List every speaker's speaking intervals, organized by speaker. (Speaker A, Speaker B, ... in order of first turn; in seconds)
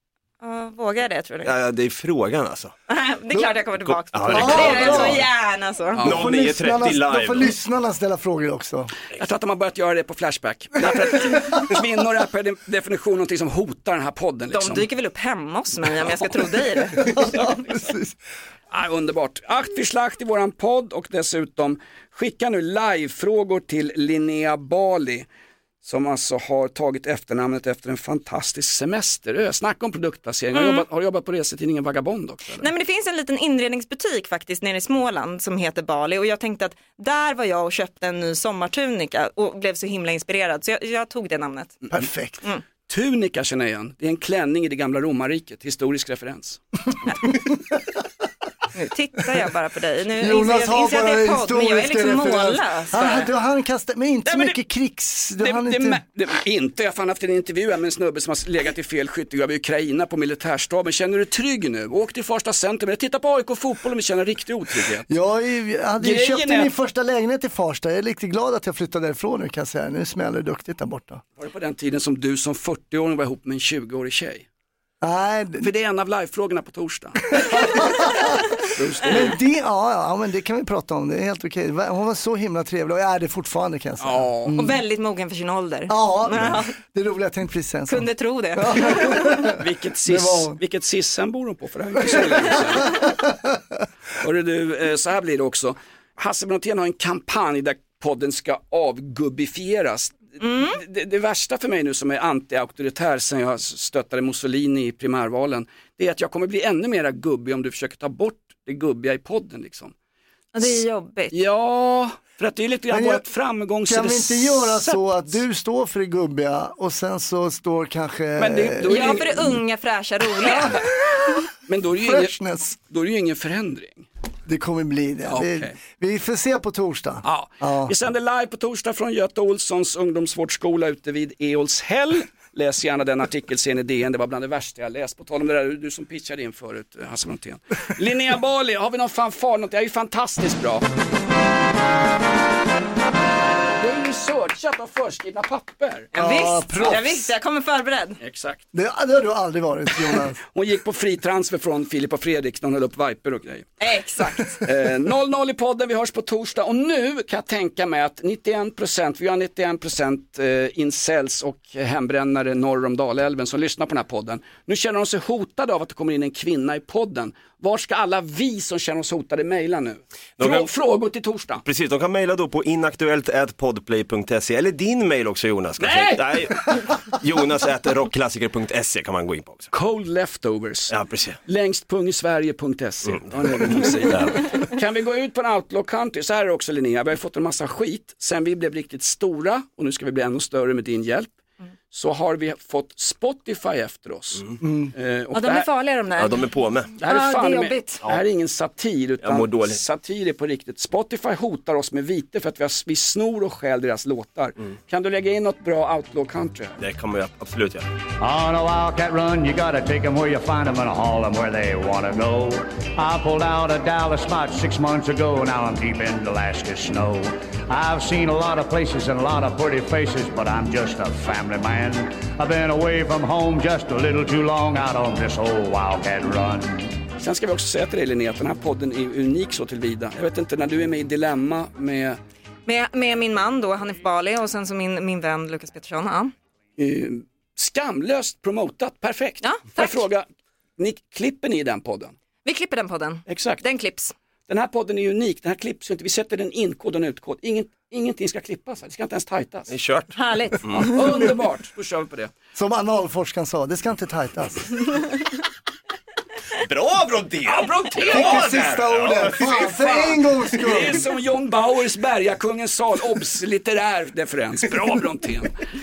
Speaker A: 0.4-1.5, 2.9-6.0, 14.5-17.1, 30.5-30.8, 32.6-41.8, 48.7-53.3, 84.5-86.7, 87.9-89.5, 100.4-100.8, 110.5-111.3, 118.9-120.8, 146.1-148.2, 153.8-154.6, 195.3-196.4, 197.0-198.0, 232.7-236.3, 239.4-240.1, 242.4-244.1, 250.1-251.0
Speaker B: 1.4-2.7, 3.9-5.3, 6.0-7.5, 170.4-170.7, 171.6-179.7, 180.9-181.4, 183.1-184.5, 196.2-196.9, 199.2-199.8, 206.8-207.9, 249.7-250.8, 256.5-259.3
Speaker C: 4.3-5.2, 6.0-8.9, 10.8-11.5, 17.0-18.1, 41.9-42.4, 50.2-56.0, 65.1-71.2, 75.0-75.7, 77.3-78.5, 79.0-84.8, 85.9-90.6, 92.0-92.3, 93.0-93.6, 112.9-113.2, 113.8-119.3, 120.4-121.4, 122.0-122.8, 124.5-127.9, 146.1-147.3, 148.7-150.4, 194.6-194.9, 252.5-255.1, 258.1-261.1
Speaker D: 5.9-6.3, 9.2-14.8, 18.7-25.2, 25.8-32.7, 42.9-46.6, 54.2-54.6, 55.4-65.1, 66.0-66.7, 71.4-74.5, 75.6-77.9, 78.6-79.3, 84.0-84.5, 89.6-93.0, 94.2-109.9, 111.3-115.3, 118.4-119.6, 121.7-122.3, 122.9-124.1, 125.2-125.8, 127.2-140.8, 143.7-146.1, 148.2-148.6, 150.5-153.7, 154.6-171.6, 175.8-176.5, 179.7-191.3, 191.9-195.7, 197.0-206.8, 227.2-232.2, 236.8-240.2, 240.8-242.1, 243.3-243.6, 244.5-249.7, 250.8-252.3, 257.4-265.6
Speaker E: 208.2-227.0